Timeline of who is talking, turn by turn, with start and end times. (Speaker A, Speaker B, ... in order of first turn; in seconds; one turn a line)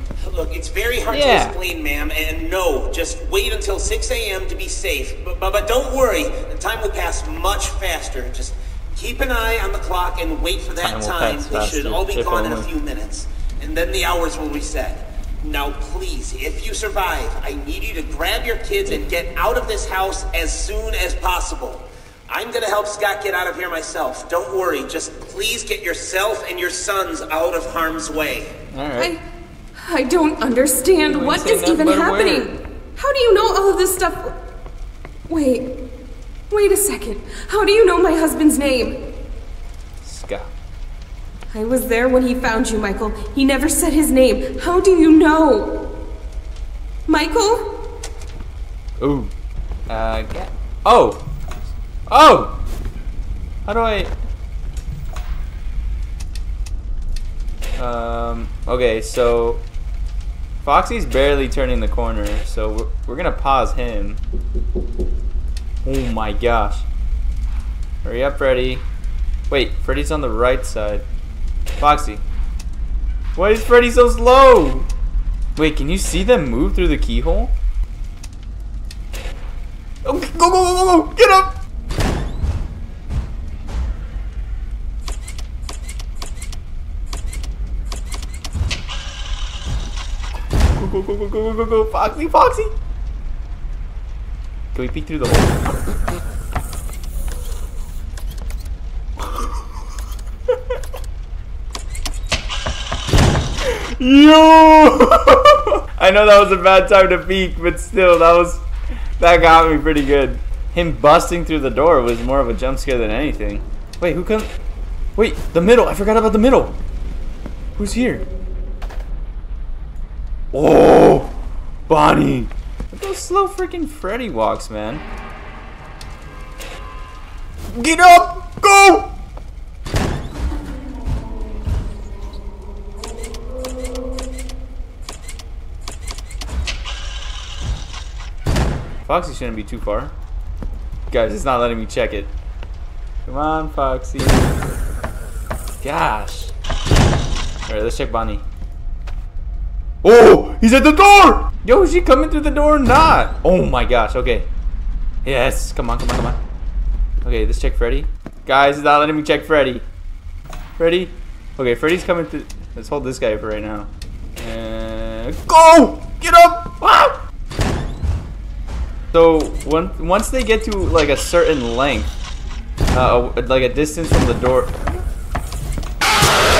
Speaker A: 0.2-28.6
Speaker B: 1.1-1.6
Speaker B: 10.8-12.7
Speaker B: 28.7-29.1
Speaker C: 29.0-29.2
Speaker C: 29.8-34.4
Speaker B: 31.1-32.5
Speaker C: 35.3-35.7
Speaker C: 36.5-39.0
Speaker B: 40.0-40.5
Speaker C: 41.5-45.9
Speaker C: 47.1-47.7
Speaker B: 49.0-49.3
Speaker B: 49.9-51.3
Speaker B: 52.1-52.6
Speaker B: 53.6-54.1
Speaker B: 57.8-59.6
Speaker B: 60.6-64.2
Speaker B: 65.8-66.8
Speaker B: 68.0-68.8
Speaker B: 69.5-71.0
Speaker B: 71.8-72.2
Speaker B: 73.3-74.9
Speaker B: 75.5-77.5
Speaker B: 80.0-81.5
Speaker B: 90.8-92.7
Speaker B: 94.7-95.6
Speaker B: 103.6-108.6
Speaker B: 109.2-114.5
Speaker B: 115.2-116.8
Speaker B: 117.8-118.2
Speaker B: 120.5-121.3
Speaker B: 121.9-125.0
Speaker B: 127.7-129.1
Speaker B: 139.0-140.1
Speaker B: 141.1-142.3
Speaker B: 143.2-144.6
Speaker B: 145.8-146.5
Speaker B: 147.7-148.4
Speaker B: 150.0-154.5
Speaker B: 155.2-156.4
Speaker B: 157.2-159.8
Speaker B: 160.8-167.2
Speaker B: 169.1-172.1
Speaker B: 172.9-174.9